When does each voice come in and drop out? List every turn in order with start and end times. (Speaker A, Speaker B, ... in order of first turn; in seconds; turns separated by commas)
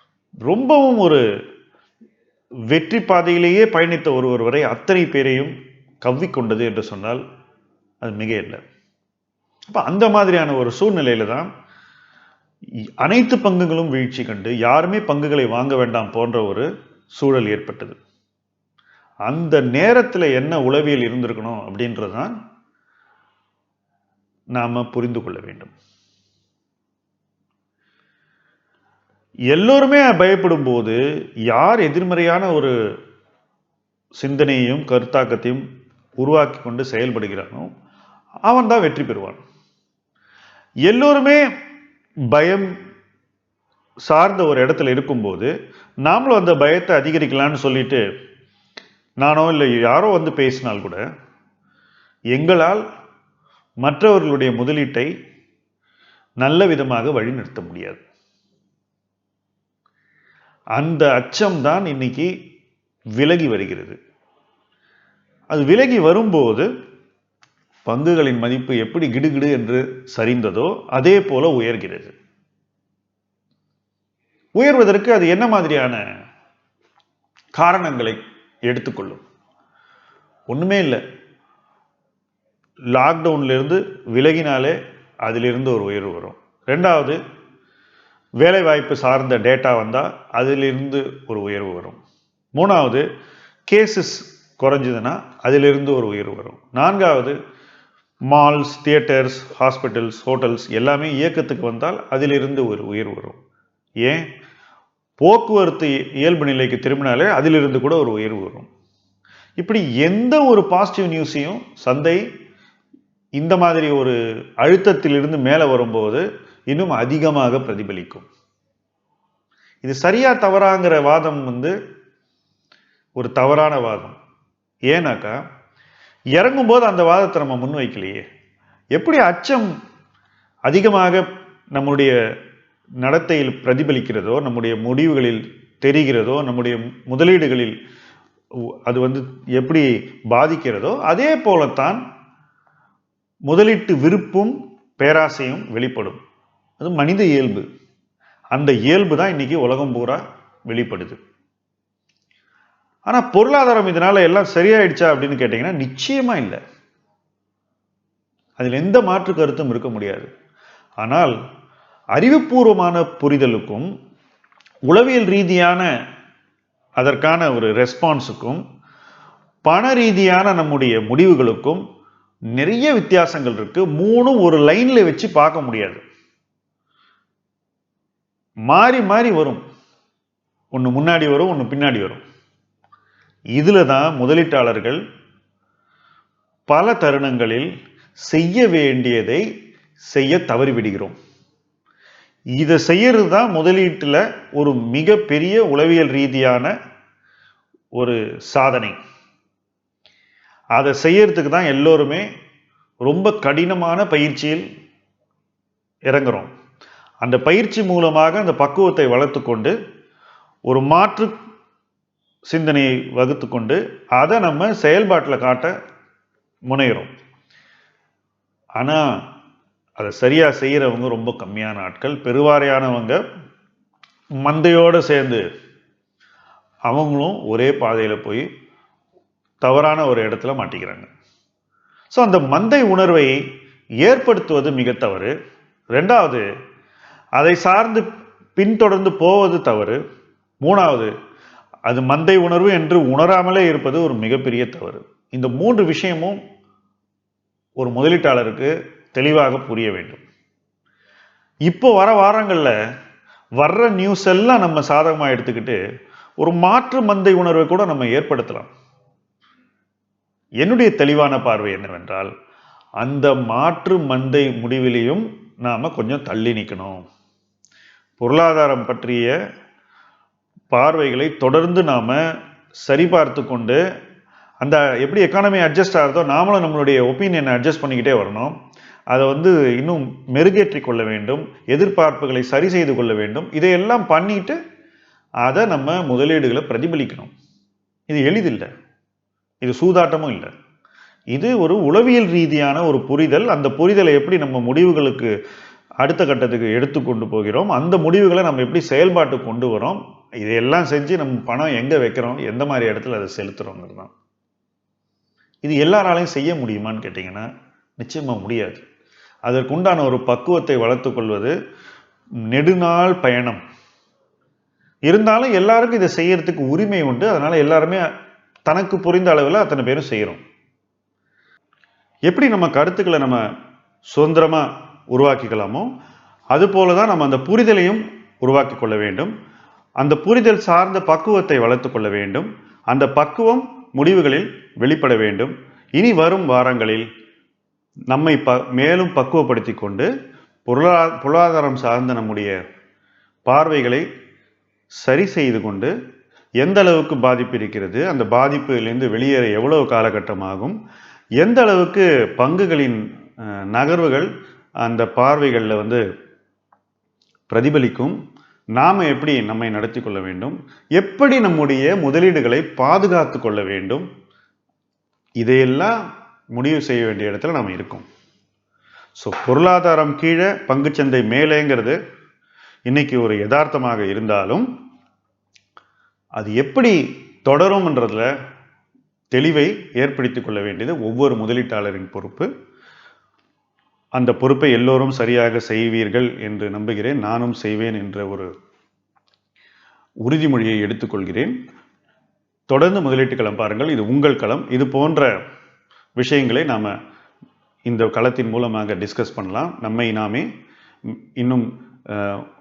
Speaker A: 0.5-1.2, Speaker A: 2.7-7.2, Speaker A: 8.0-8.6, Speaker A: 9.7-11.5, Speaker A: 13.0-18.0, Speaker A: 19.2-22.3, Speaker A: 24.5-25.7, Speaker A: 29.5-32.7, Speaker A: 34.2-35.6, Speaker A: 36.2-37.7, Speaker A: 38.4-39.4, Speaker A: 40.9-41.4, Speaker A: 42.3-42.7, Speaker A: 44.1-45.5, Speaker A: 46.0-48.0, Speaker A: 49.2-51.0, Speaker A: 52.3-52.8, Speaker A: 53.8-55.1, Speaker A: 56.4-58.0, Speaker A: 60.8-62.3, Speaker A: 63.2-64.0, Speaker A: 65.5-66.7, Speaker A: 67.8-72.1, Speaker A: 74.6-76.0, Speaker A: 77.5-79.2, Speaker A: 80.5-81.0, Speaker A: 82.9-87.2, Speaker A: 88.4-92.0, Speaker A: 92.5-93.0, Speaker A: 93.7-97.3, Speaker A: 98.3-103.4, Speaker A: 105.2-108.7, Speaker A: 109.6-112.2, Speaker A: 113.4-118.3, Speaker A: 119.8-121.7, Speaker A: 123.2-124.2, Speaker A: 124.9-125.4, Speaker A: 126.3-128.2, Speaker A: 128.9-129.7, Speaker A: 130.7-132.1, Speaker A: 133.0-137.8, Speaker A: 138.8-142.0, Speaker A: 143.5-146.2, Speaker A: 146.8-147.6, Speaker A: 148.5-151.2, Speaker A: 153.1-156.6, Speaker A: 158.6-160.3, Speaker A: 161.0-161.3, Speaker A: 162.1-163.9, Speaker A: 164.9-165.9, Speaker A: 167.0-168.6, Speaker A: 169.6-171.8, Speaker A: 172.6-176.0, Speaker A: 178.7-179.6, Speaker A: 180.7-182.2, Speaker A: 183.5-185.0, Speaker A: 186.7-189.4, Speaker A: 190.1-191.2, Speaker A: 192.6-196.7, Speaker A: 197.9-199.0, Speaker A: 200.7-202.2, Speaker A: 203.0-204.6, Speaker A: 206.1-206.5, Speaker A: 207.2-209.7, Speaker A: 210.7-211.3, Speaker A: 212.5-215.7, Speaker A: 216.7-217.1, Speaker A: 218.8-219.0, Speaker A: 220.0-223.2, Speaker A: 224.4-225.4, Speaker A: 226.9-228.5, Speaker A: 229.6-231.1, Speaker A: 232.1-233.3, Speaker A: 234.0-235.3, Speaker A: 235.9-236.4, Speaker A: 237.4-240.0, Speaker A: 240.6-241.1, Speaker A: 241.9-246.4, Speaker A: 247.8-250.2, Speaker A: 251.7-252.7, Speaker A: 253.6-255.8, Speaker A: 256.4-258.7, Speaker A: 260.6-262.3, Speaker A: 263.0-267.0, Speaker A: 268.2-269.3, Speaker A: 270.7-272.2, Speaker A: 272.8-273.8, Speaker A: 274.6-278.5, Speaker A: 279.1-284.6, Speaker A: 285.4-287.3, Speaker A: 288.1-288.7, Speaker A: 289.6-290.5, Speaker A: 291.3-295.3, Speaker A: 296.0-304.1, Speaker A: 305.6-307.4, Speaker A: 308.0-308.8, Speaker A: 309.4-311.5, Speaker A: 312.5-313.6, Speaker A: 315.1-318.0, Speaker A: 318.6-320.4, Speaker A: 322.3-323.4, Speaker A: 324.1-325.9, Speaker A: 326.5-329.3, Speaker A: 330.0-337.1, Speaker A: 338.1-340.1, Speaker A: 340.6-342.5, Speaker A: 343.5-344.0, Speaker A: 345.0-345.9, Speaker A: 346.6-350.8, Speaker A: 351.4-354.3, Speaker A: 354.8-356.0, Speaker A: 357.5-358.1, Speaker A: 358.8-364.1, Speaker A: 365.4-366.0, Speaker A: 366.5-368.1, Speaker A: 369.2-372.0, Speaker A: 372.9-374.7, Speaker A: 376.4-378.3, Speaker A: 379.3-382.5, Speaker A: 384.2-388.5, Speaker A: 390.2-391.5, Speaker A: 392.7-395.3, Speaker A: 396.2-396.9, Speaker A: 397.9-400.4, Speaker A: 401.4-402.4